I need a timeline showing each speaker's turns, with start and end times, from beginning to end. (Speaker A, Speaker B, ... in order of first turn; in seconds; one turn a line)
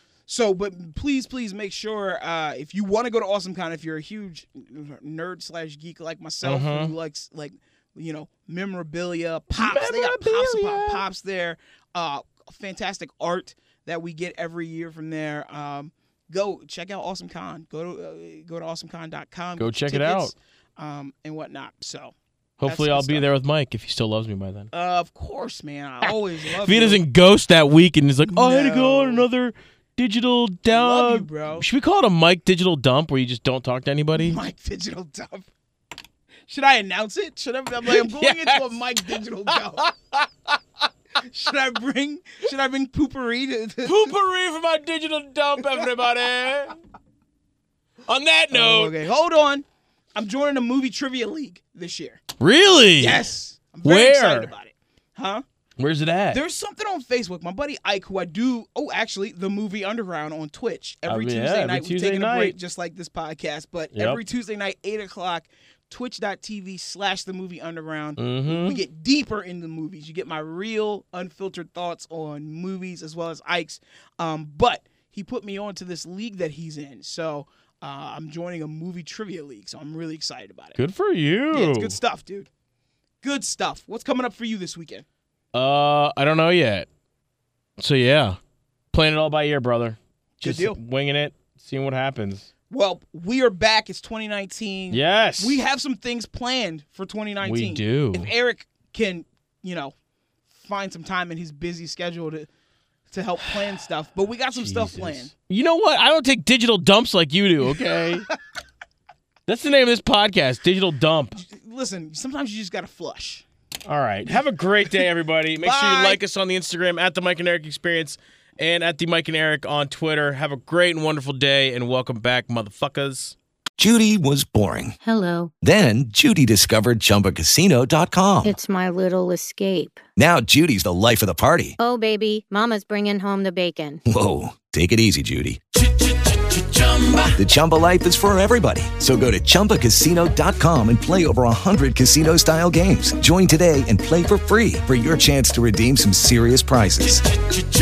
Speaker A: 0.3-22.1
Speaker B: 6.4-7.0
Speaker B: 9.5-11.0
Speaker B: 19.6-20.3
Speaker B: 22.6-24.7
Speaker A: 22.6-23.3
Speaker A: 24.7-27.0
Speaker B: 26.0-34.4
Speaker A: 28.3-29.3
Speaker A: 30.7-31.7
Speaker A: 34.1-35.5
Speaker A: 36.5-39.9
Speaker B: 37.8-40.3
Speaker A: 41.2-44.1
Speaker B: 43.8-46.8
Speaker B: 48.1-49.0
Speaker A: 48.5-49.6
Speaker A: 50.2-52.2
Speaker B: 52.4-53.2
Speaker A: 53.0-55.4
Speaker B: 53.8-54.5
Speaker B: 55.8-56.4
Speaker A: 56.3-80.8
Speaker B: 61.1-62.6
Speaker B: 63.9-64.2
Speaker B: 68.2-68.8
Speaker B: 80.8-82.0
Speaker A: 81.5-82.5
Speaker A: 83.2-85.1
Speaker B: 85.5-86.9
Speaker B: 87.8-88.4
Speaker B: 88.9-92.5
Speaker A: 90.4-90.8
Speaker A: 92.7-100.0
Speaker B: 94.9-95.6
Speaker B: 97.4-98.3
Speaker A: 100.5-102.5
Speaker A: 103.1-105.3
Speaker B: 104.5-108.3
Speaker B: 109.5-111.4
Speaker A: 111.4-113.5
Speaker B: 113.9-123.4
Speaker A: 115.6-116.2
Speaker C: 123.8-125.0
Speaker D: 125.0-125.5
Speaker C: 125.6-128.5
Speaker D: 128.4-130.0
Speaker C: 130.2-131.8
Speaker D: 131.8-134.0
Speaker C: 134.1-135.6
Speaker C: 137.4-147.2